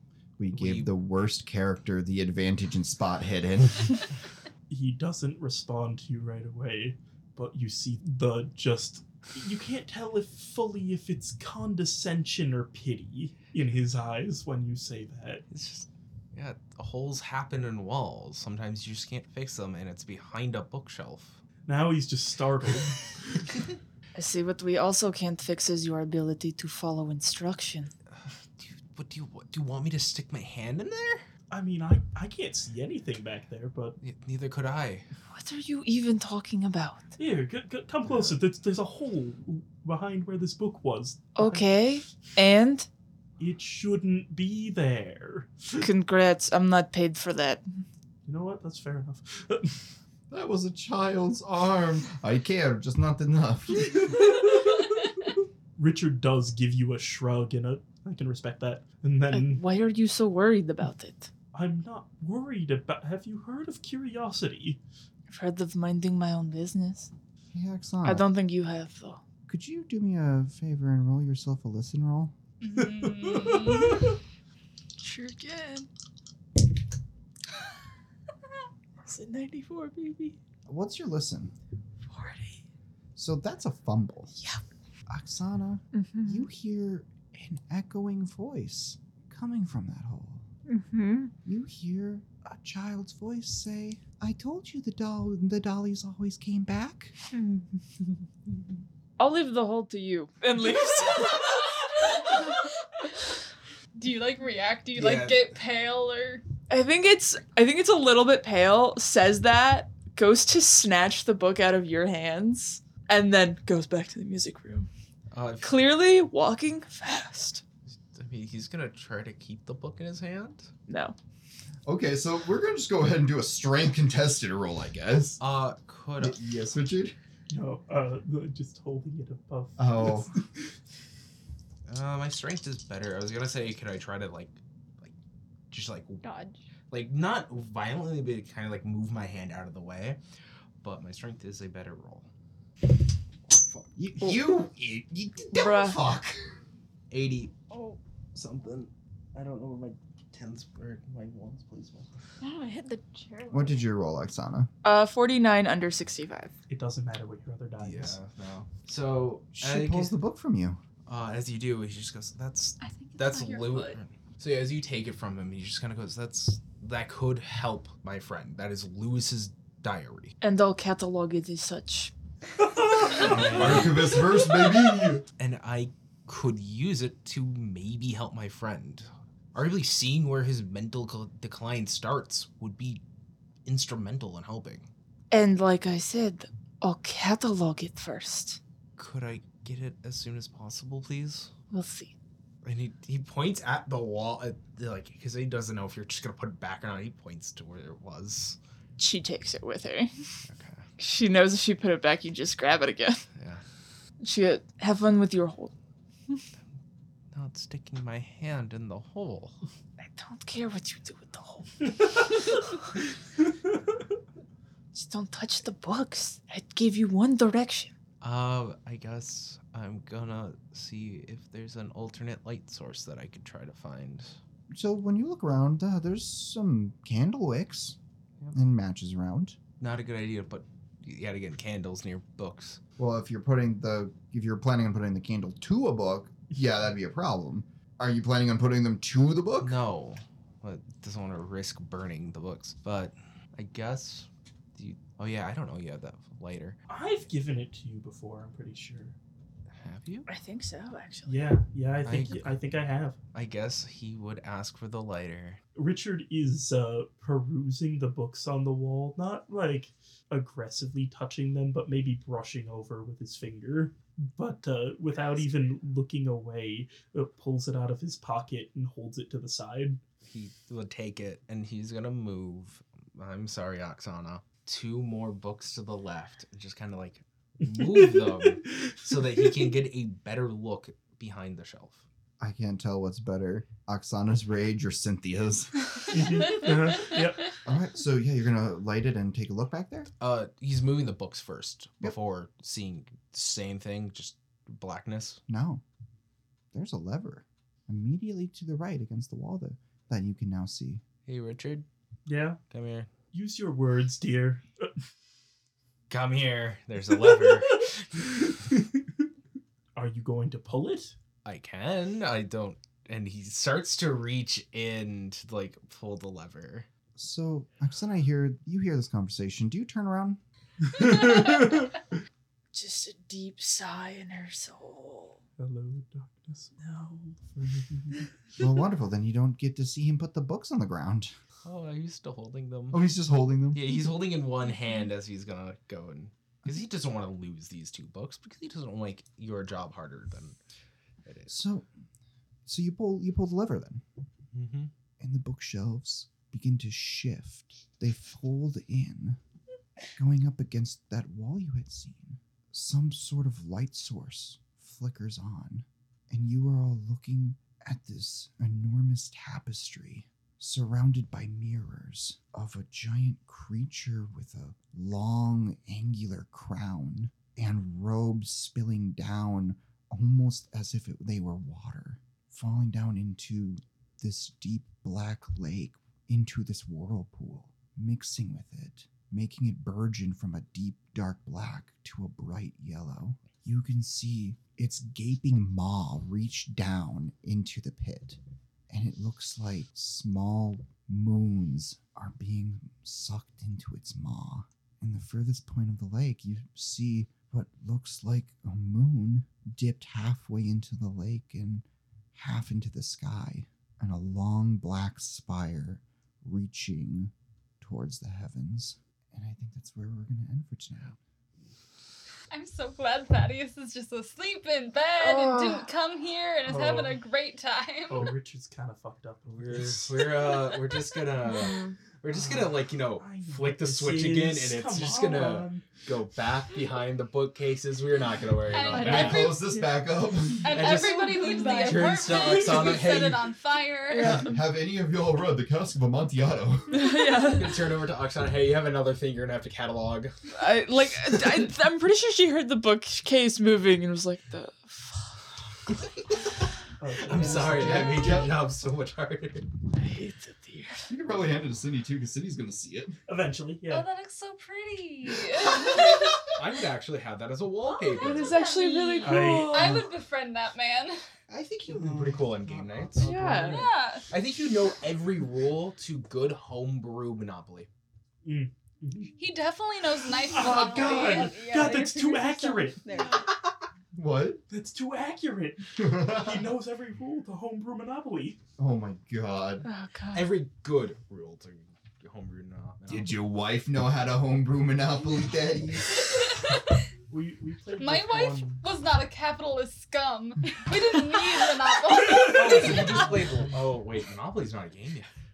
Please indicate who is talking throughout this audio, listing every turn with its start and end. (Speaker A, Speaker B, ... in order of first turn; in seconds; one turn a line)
Speaker A: 0.4-4.0
Speaker B: 0.5-0.9
Speaker C: 4.7-15.4
Speaker B: 15.5-21.4
Speaker C: 21.6-23.4
Speaker D: 24.1-27.9
Speaker B: 28.1-31.3
Speaker C: 31.5-34.0
Speaker B: 34.0-35.1
Speaker D: 35.3-37.1
Speaker C: 37.2-41.7
Speaker D: 41.4-42.9
Speaker C: 43.4-45.9
Speaker D: 45.8-47.8
Speaker C: 48.2-50.0
Speaker A: 50.3-54.1
Speaker C: 53.9-55.0
Speaker C: 55.8-59.6
Speaker D: 59.3-61.3
Speaker C: 61.5-64.8
Speaker D: 65.3-67.1
Speaker A: 67.5-68.2
Speaker D: 68.0-69.2
Speaker A: 69.5-72.3
Speaker E: 72.6-74.1
Speaker C: 72.8-74.0
Speaker D: 75.0-75.9
Speaker D: 79.0-80.4
Speaker A: 80.7-81.5
Speaker D: 82.0-82.6
Speaker A: 83.2-84.4
Speaker A: 85.1-90.5
Speaker D: 85.9-86.5
Speaker D: 90.7-91.3
Speaker A: 91.5-97.1
Speaker D: 97.3-98.0
Speaker D: 99.2-102.5
Speaker E: 104.0-106.4
Speaker B: 104.9-105.5
Speaker D: 106.7-114.9
Speaker B: 115.3-115.8
Speaker D: 115.6-117.6
Speaker B: 118.1-120.7
Speaker D: 120.9-121.2
Speaker A: 121.8-125.4
Speaker B: 125.4-126.4
Speaker A: 126.2-127.2
Speaker C: 127.5-130.7
Speaker A: 129.8-130.3
Speaker B: 131.8-135.1
Speaker B: 135.7-136.2
Speaker F: 136.2-136.6
Speaker B: 136.9-140.2
Speaker B: 140.8-142.3
Speaker B: 143.5-143.9
Speaker A: 143.9-146.5
Speaker D: 145.5-146.0
Speaker B: 147.1-147.6
Speaker F: 147.7-148.0
Speaker B: 148.3-152.1
Speaker F: 152.4-153.8
Speaker A: 153.5-154.7
Speaker D: 154.8-156.5
Speaker C: 156.7-158.2
Speaker B: 157.8-160.1
Speaker A: 159.5-160.8
Speaker B: 161.1-170.3
Speaker E: 162.8-163.9
Speaker D: 170.4-172.1
Speaker C: 172.7-173.7
Speaker B: 173.1-174.2
Speaker A: 173.2-175.2
Speaker B: 175.4-183.0
Speaker B: 183.6-184.9
Speaker D: 185.3-188.6
Speaker B: 189.0-191.5
Speaker D: 191.7-192.1
Speaker B: 192.6-198.6
Speaker D: 199.0-200.4
Speaker B: 200.4-200.9
Speaker D: 201.0-203.2
Speaker B: 203.3-203.6
Speaker D: 204.2-205.7
Speaker B: 207.3-209.7
Speaker D: 210.1-212.8
Speaker D: 214.9-217.9
Speaker B: 218.2-224.4
Speaker A: 224.7-228.0
Speaker A: 228.5-229.6
Speaker B: 229.8-232.8
Speaker A: 233.0-239.8
Speaker B: 239.6-246.8
Speaker C: 246.9-249.2
Speaker B: 249.8-250.3
Speaker D: 250.3-251.5
Speaker C: 251.2-253.2
Speaker B: 252.0-252.6
Speaker B: 253.3-255.6
Speaker C: 255.7-270.0
Speaker B: 270.2-282.1
Speaker C: 277.8-279.4
Speaker A: 282.4-286.0
Speaker C: 286.1-287.6
Speaker A: 287.6-290.1
Speaker B: 290.2-295.4
Speaker A: 295.5-295.8
Speaker A: 296.7-301.0
Speaker B: 301.2-301.9
Speaker C: 302.3-302.6
Speaker B: 302.7-303.1
Speaker C: 303.3-304.9
Speaker B: 306.1-308.3
Speaker C: 308.4-309.0
Speaker C: 309.9-311.1
Speaker B: 311.4-316.9
Speaker A: 317.1-320.4
Speaker E: 321.0-321.7
Speaker C: 321.0-321.7
Speaker D: 322.7-325.4
Speaker C: 325.6-328.3
Speaker A: 328.6-331.3
Speaker B: 331.6-333.0
Speaker A: 332.9-334.0
Speaker B: 333.7-340.6
Speaker B: 341.2-341.6
Speaker A: 341.5-341.9
Speaker A: 342.6-344.0
Speaker B: 344.5-344.9
Speaker A: 345.2-349.4
Speaker A: 350.1-411.2
Speaker E: 412.5-418.3
Speaker D: 415.2-415.9
Speaker C: 416.6-417.1
Speaker C: 418.1-420.8
Speaker B: 419.5-429.5
Speaker C: 422.2-426.0
Speaker E: 428.7-429.8
Speaker A: 428.9-430.8
Speaker F: 429.1-429.4
Speaker E: 430.6-434.4
Speaker B: 430.6-433.5
Speaker F: 431.0-432.3
Speaker D: 434.1-434.6
Speaker A: 434.2-437.1
Speaker D: 436.9-437.9
Speaker B: 437.4-440.3
Speaker D: 440.5-445.5
Speaker C: 447.0-448.4
Speaker B: 447.2-449.7
Speaker A: 447.3-448.5
Speaker D: 449.9-451.1
Speaker A: 451.1-453.2
Speaker C: 453.3-454.1
Speaker E: 453.9-456.4
Speaker A: 455.6-456.3
Speaker B: 456.5-458.6
Speaker D: 458.0-460.1
Speaker E: 458.3-461.2
Speaker C: 459.2-460.1
Speaker A: 461.5-463.3
Speaker B: 461.9-467.9
Speaker D: 463.2-463.8
Speaker E: 463.6-464.3
Speaker C: 468.4-469.3
Speaker E: 469.4-471.6
Speaker C: 470.5-473.1
Speaker A: 470.6-471.4
Speaker F: 471.1-473.4
Speaker A: 474.1-474.6
Speaker C: 474.7-478.6
Speaker A: 476.0-476.7
Speaker A: 478.8-479.8
Speaker D: 479.8-480.5
Speaker B: 480.3-483.4
Speaker A: 483.1-486.3
Speaker E: 486.2-486.9
Speaker C: 487.3-488.8
Speaker E: 488.0-493.2
Speaker C: 492.2-493.8
Speaker B: 492.4-495.3